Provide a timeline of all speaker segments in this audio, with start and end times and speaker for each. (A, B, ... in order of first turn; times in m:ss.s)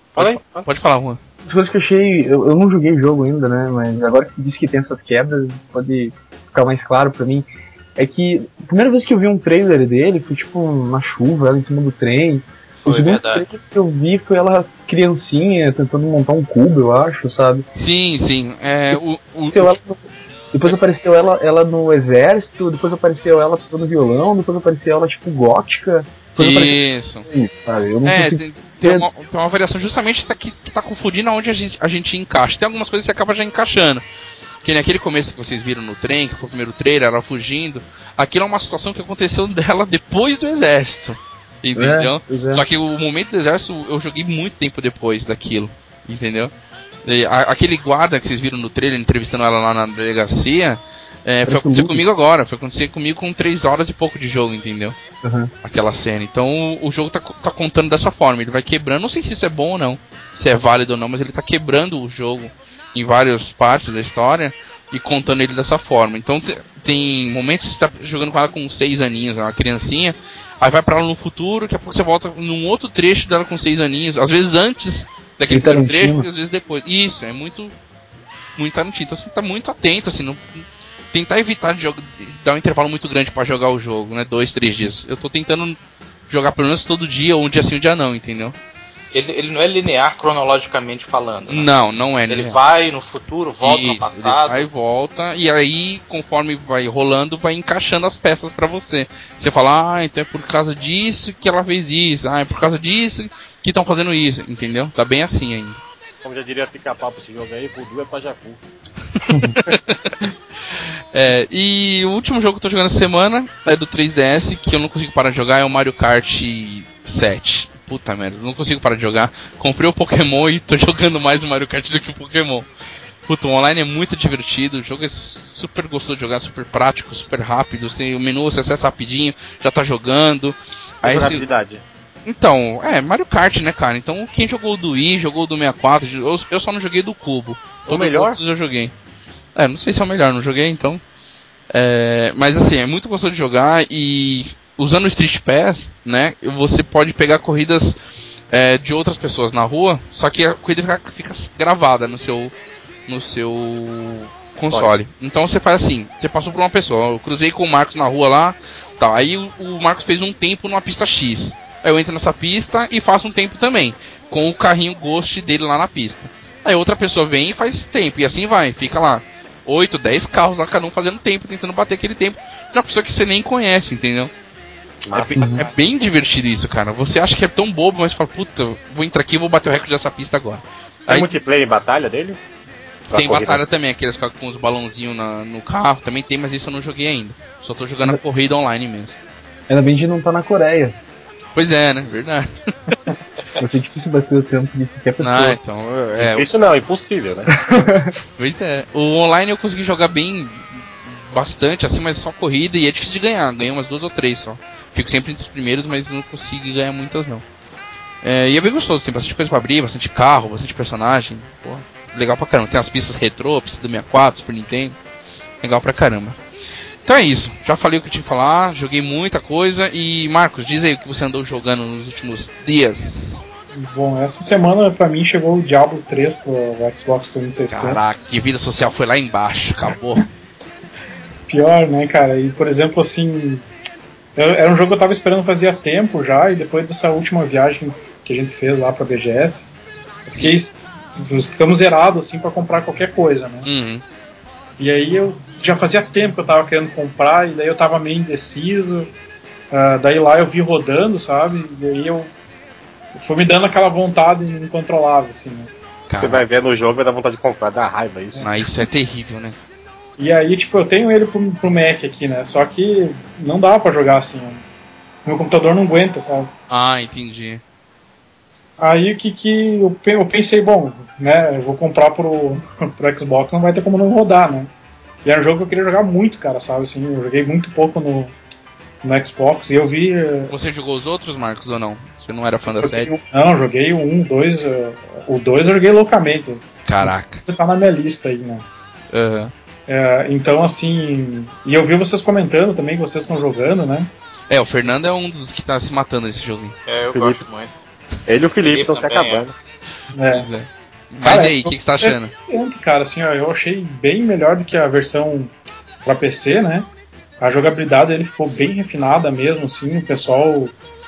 0:00.2-0:00.7 A
0:00.2-0:01.2 B
0:01.4-0:17.7 C
0:12.8-0:13.5 D
0:17.7-0:19.8 B
0:19.5-0:29.1 C
0:26.4-0:27.3 B
0:28.0-0:34.0 B
0:34.6-0:46.5 B
0:41.8-0:42.6 C
0:47.0-0:55.0 B
0:51.5-0:52.0 C
0:55.2-0:55.5 C
0:55.6-1:17.7 B
1:15.5-1:16.3 C
1:18.6-1:25.8 B
1:26.3-1:28.6 B
1:29.1-1:31.7 D
1:31.5-1:32.6 B
1:32.3-1:34.7 D
1:33.6-1:45.8 B
1:46.2-1:48.6 A
1:49.2-2:02.7 B
2:03.3-2:11.4 B
2:11.0-2:11.8 A
2:12.3-2:18.9 B
2:17.9-2:18.4 A
2:19.6-2:21.0 B
2:21.7-2:28.0 B
2:28.5-2:32.5 B
2:33.1-2:54.3 B
2:55.0-2:55.6 A
2:55.1-3:01.4 B
3:01.1-3:02.4 A
3:03.1-3:03.6 A
3:03.1-3:09.2 B
3:09.7-3:11.0 C
3:11.6-3:13.0 B
3:13.6-3:15.6 C
3:15.2-3:16.5 B
3:16.2-3:17.5 A
3:17.5-3:18.1 C
3:18.4-3:27.4 B
3:28.2-3:35.0 B
3:35.6-3:36.4 B
3:37.0-3:43.4 B
3:43.7-3:48.0 E
3:47.7-3:50.3 B
3:51.5-3:53.6 E
3:54.4-3:59.7 E
4:00.3-4:00.6 B
4:00.4-4:03.7 E
4:03.6-4:04.0 B
4:04.8-4:09.1 E
4:09.7-4:12.3 E
4:13.2-4:15.7 E
4:16.1-4:16.4 B
4:16.2-4:18.5 A
4:18.4-4:19.6 B
4:20.2-4:24.6 E
4:25.2-4:26.5 E
4:26.7-4:27.6 B
4:28.8-4:34.7 E
4:35.2-4:38.3 E
4:39.0-4:40.5 E
4:40.5-4:43.1 B
4:42.8-4:48.6 E
4:46.9-4:47.5 B
4:49.1-4:49.5 B
4:49.9-4:54.1 E
4:54.5-4:56.8 B
4:56.9-4:57.7 D
4:57.1-4:57.4 A
4:58.3-4:59.5 A
4:58.6-4:59.5 D
5:00.1-5:00.5 E
5:00.3-5:02.3 B
5:01.2-5:05.5 E
5:06.0-5:06.9 E
5:07.4-5:10.8 E